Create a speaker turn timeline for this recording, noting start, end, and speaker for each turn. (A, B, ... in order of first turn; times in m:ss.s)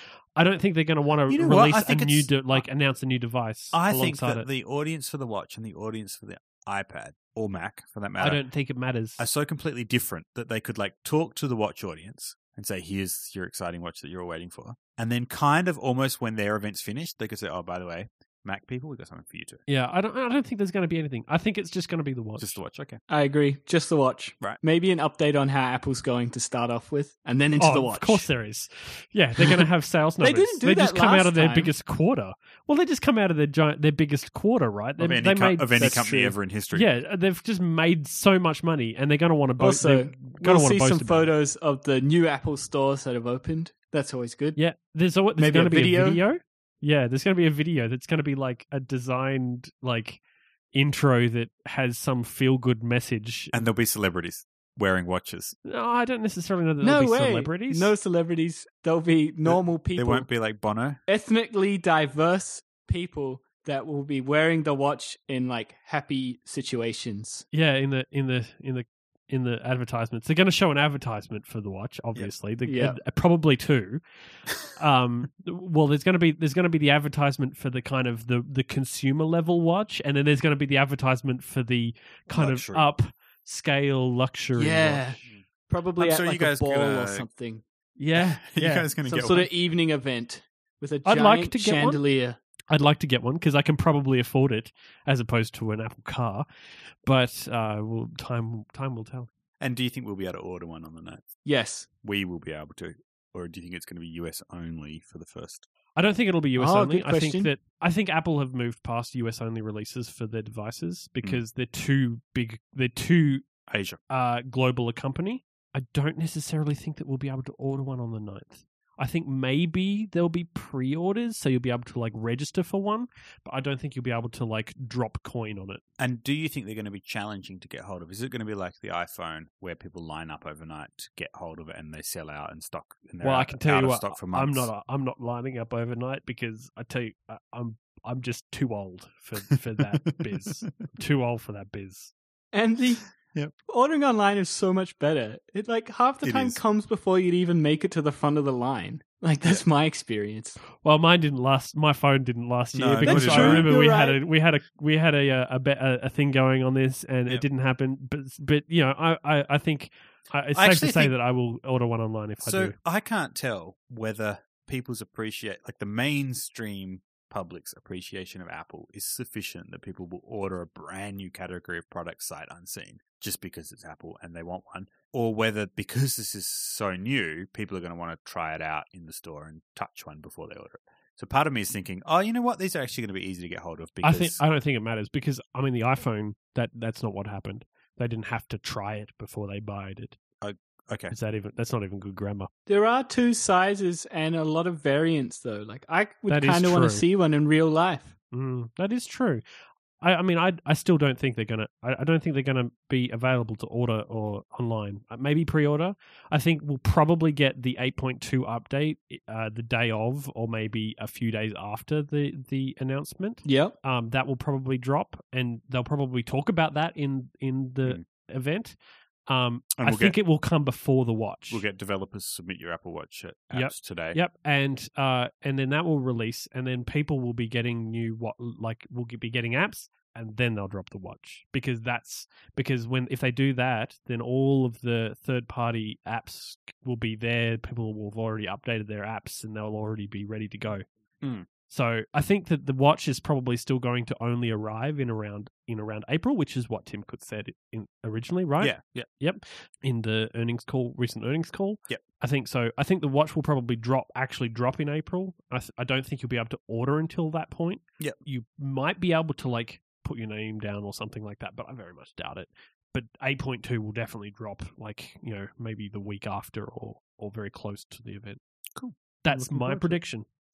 0:00.4-0:04.5 A
0:01.3-0:02.6 B
0:03.7-0:08.4 B
0:08.2-0:09.2 A
0:09.2-0:19.6 B
0:19.7-0:22.6 A
0:22.4-0:23.0 B
0:23.1-0:28.3 C
0:27.6-0:36.1 A
0:30.2-0:31.7 C
0:35.0-0:36.9 B
0:35.8-0:36.3 C
0:36.7-0:41.3 A
0:39.6-0:44.6 C
0:44.6-0:50.2 A
0:45.4-0:46.2 C
0:50.7-0:53.6 A
0:53.5-0:55.6 B
0:55.6-0:57.9 A
0:56.8-1:00.3 C
0:59.4-1:01.0 B
1:01.1-1:07.4 C
1:07.5-1:14.0 A
1:12.6-1:13.0 C
1:14.7-1:25.2 A
1:22.3-1:22.8 B
1:24.6-1:27.6 C
1:26.0-1:27.2 B
1:28.0-1:28.9 A
1:28.1-1:29.5 B
1:29.0-1:32.4 C
1:31.0-1:32.0 A
1:32.7-1:36.4 A
1:37.0-1:39.3 A
1:39.6-1:41.4 B
1:41.4-1:41.9 C
1:42.0-1:45.7 B
1:46.0-1:53.4 A
1:46.6-1:47.5 C
1:53.7-1:54.0 B
1:54.1-2:05.8 A
2:06.0-2:14.7 B
2:13.2-2:22.1 A
2:20.1-2:20.7 B
2:22.5-2:23.0 C
2:23.7-2:30.6 C
2:26.2-2:26.6 B
2:30.8-2:42.7 A
2:32.7-2:33.7 B
2:33.0-2:34.2 C
2:40.5-2:41.1 B
2:42.4-3:04.4 B
3:04.0-3:10.2 A
3:10.4-3:11.1 B
3:11.1-3:12.5 A
3:12.7-3:18.1 C
3:16.3-3:17.0 A
3:18.3-3:19.4 A
3:20.0-3:38.8 A
3:33.4-3:33.7 C
3:39.3-3:41.6 A
3:39.7-3:40.1 B
3:41.5-3:44.2 B
3:43.5-4:00.8 A
4:01.2-4:01.5 B
4:01.7-4:28.4 A
4:08.6-4:09.1 B
4:28.8-4:30.0 B
4:29.2-4:30.2 A